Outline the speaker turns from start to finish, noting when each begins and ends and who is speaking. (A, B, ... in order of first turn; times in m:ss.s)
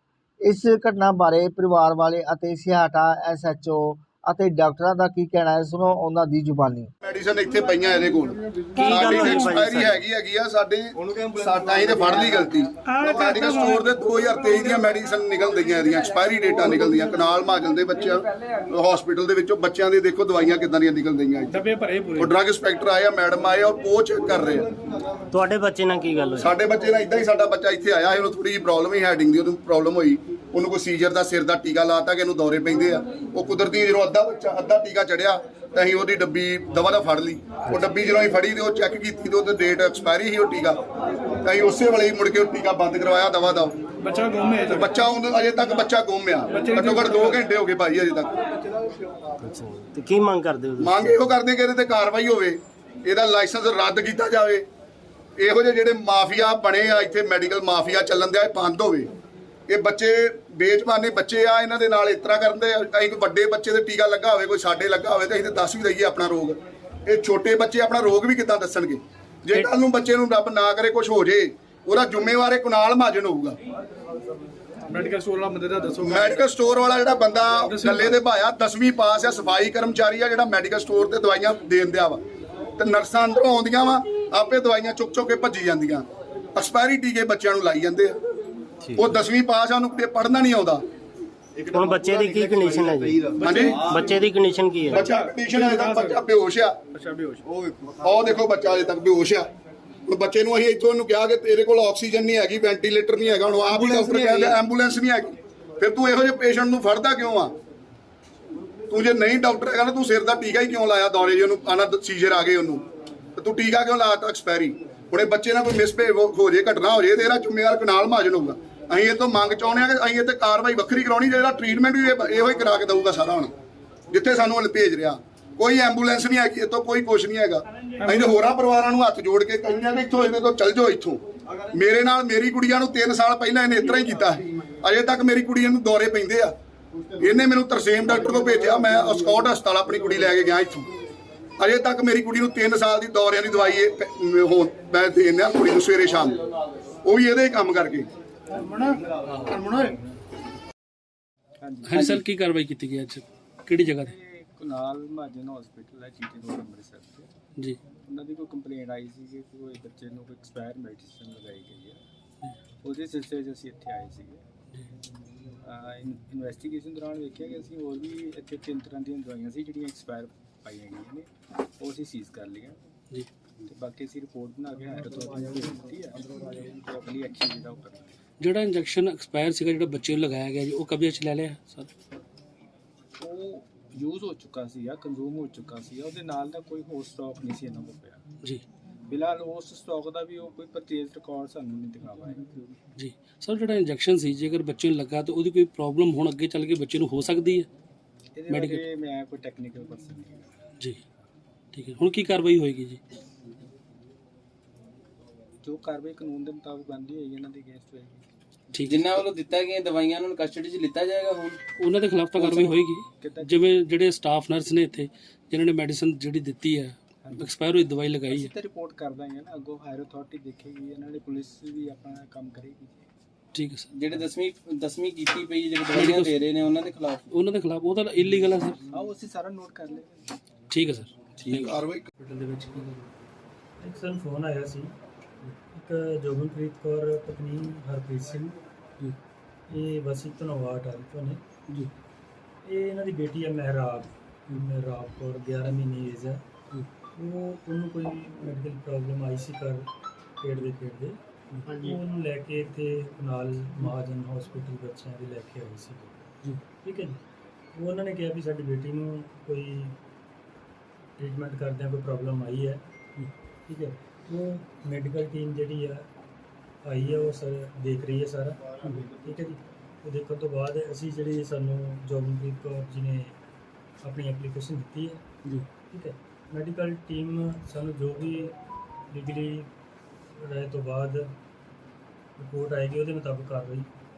0:00.4-0:06.9 A
0:07.0-0:21.6 B
0:08.8-0:10.0 C
0:12.9-0:13.9 D
0:21.5-0:22.3 D
0:22.2-0:24.7 B
0:25.3-0:26.5 C
0:26.4-0:40.8 B
0:41.4-0:43.8 B
0:44.0-0:44.9 D
0:44.7-0:48.3 B
0:46.5-0:47.4 D
0:49.4-0:51.3 C
0:50.8-0:54.6 B
0:55.4-0:59.1 B
0:59.7-1:13.6 B
1:14.9-1:16.4 D
1:16.0-1:22.2 B
1:17.7-1:18.2 D
1:22.8-1:28.2 B
1:28.9-1:29.1 C
1:29.0-1:30.8 B
1:31.6-1:35.1 C
1:33.4-1:33.9 B
1:33.4-1:34.3 D
1:34.9-1:36.2 D
1:34.9-1:36.8 B
1:37.0-1:37.3 D
1:38.0-1:39.5 B
1:40.1-1:47.5 B
1:48.9-1:52.8 B
1:53.4-2:03.5 B
2:04.1-2:11.2 B
2:08.1-2:08.3 D
2:11.7-2:16.5 B
2:17.2-2:20.9 B
2:21.6-2:26.4 B
2:27.0-2:28.1 B
2:28.6-2:29.0 D
2:29.3-2:29.6 E
2:29.5-2:29.9 D
2:31.6-2:32.1 F
2:31.8-2:34.1 E
2:34.0-2:37.3 F
2:38.0-2:42.0 F
2:42.8-2:44.4 F
2:45.6-2:52.8 F
2:53.6-2:58.2 F
2:58.4-3:01.9 E
3:03.2-3:08.2 F
3:09.1-3:12.8 F
3:13.0-3:17.7 E
3:18.3-3:20.5 F
3:18.5-3:18.8 E
3:21.7-3:23.0 E
3:25.6-3:28.2 F
3:28.7-3:29.2 E
3:31.7-3:38.5 E
3:32.3-3:33.6 F
3:38.3-3:43.0 F
3:43.5-3:43.9 E
3:44.0-3:47.2 G
3:45.9-3:46.5 E
3:47.3-3:48.8 E
3:48.9-3:50.3 F
3:50.7-3:53.1 E
3:51.5-3:52.1 B
3:53.8-3:54.9 H
3:55.7-3:58.5 H
3:59.7-4:01.4 H
4:02.6-4:06.4 H
4:07.2-4:09.9 H
4:10.4-4:11.2 H
4:11.7-4:16.2 H
4:16.8-4:17.2 H
4:17.7-4:20.0 H
4:21.2-4:22.8 H
4:23.7-4:26.0 H
4:26.8-4:33.4 H
4:34.0-4:35.2 H
4:35.9-4:38.5 H
4:39.1-4:39.7 H
4:40.4-4:41.3 H
4:42.4-4:43.9 H